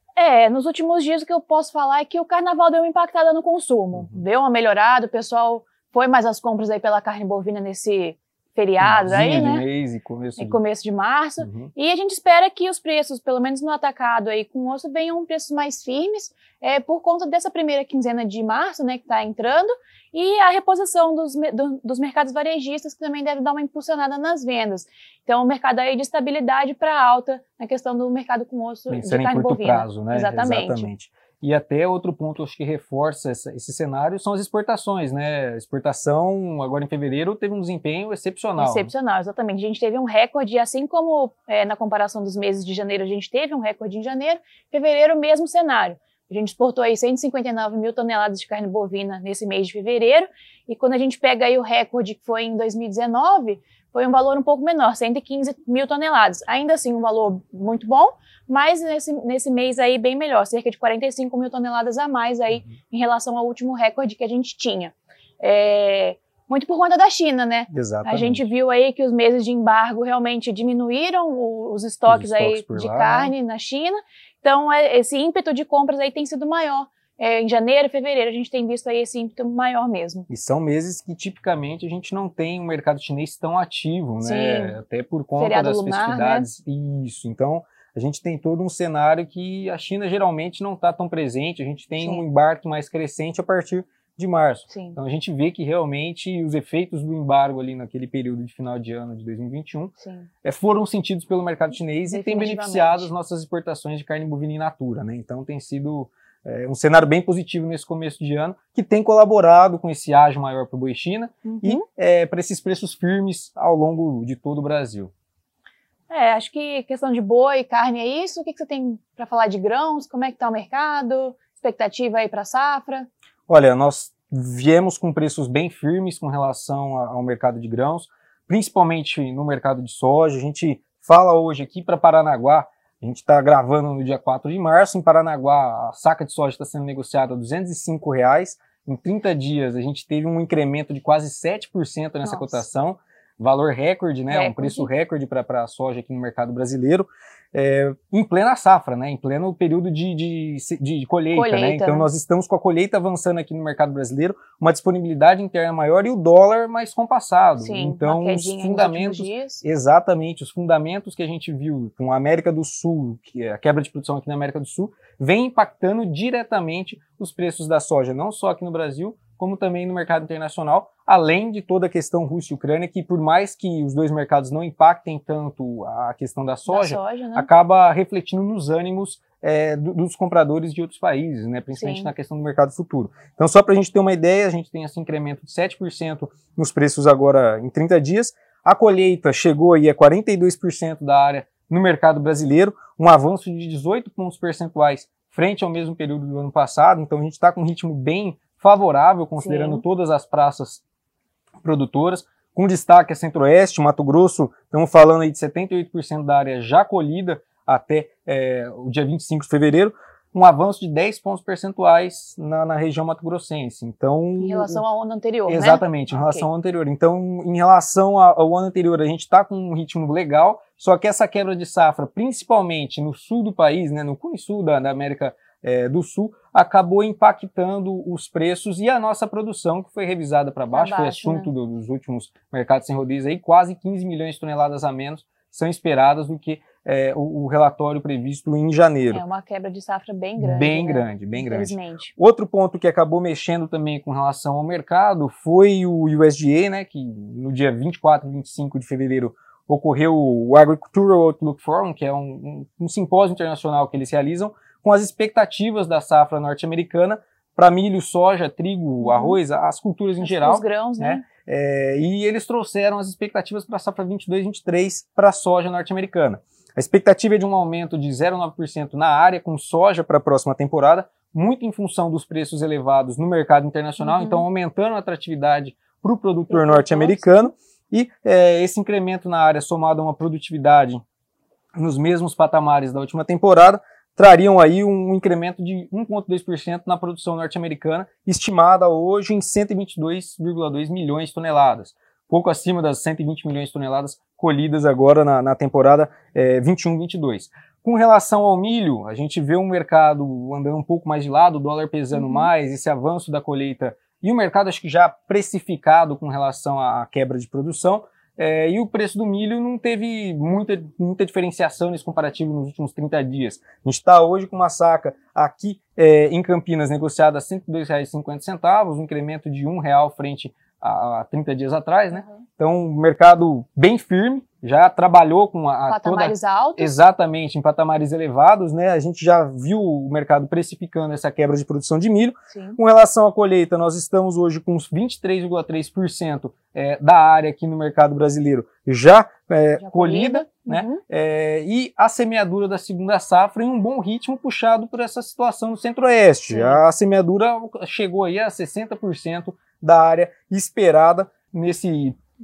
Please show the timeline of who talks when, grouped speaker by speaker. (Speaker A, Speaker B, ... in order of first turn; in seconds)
Speaker A: 0.2-9.6, 10.4-30.9, 38.6-80.3, 84.2-84.8, 85.4-86.5, 92.0-92.2, 94.7-95.0, 100.0-100.3, 102.1-103.1, 111.5-111.8, 116.1-123.1, 142.2-142.7, 144.3-144.9, 151.3-152.1, 157.6-159.6, 176.7-177.5, 181.7-182.1, 199.4-199.8, 214.4-216.5, 230.7-231.5, 239.1-242.1, 259.0-259.4, 260.2-261.2, 274.0-274.5, 276.5-277.5, 302.1-302.5, 322.1-322.4, 325.9-326.9, 332.5-332.8, 339.8-341.0, 346.5-346.8
Speaker B: 3.9-4.2, 8.8-10.6, 11.4-11.7, 28.9-38.9, 67.7-68.5, 72.0-73.3, 80.3-115.1, 123.5-200.8, 201.6-214.8, 215.5-239.2, 240.4-281.0, 281.8-352.2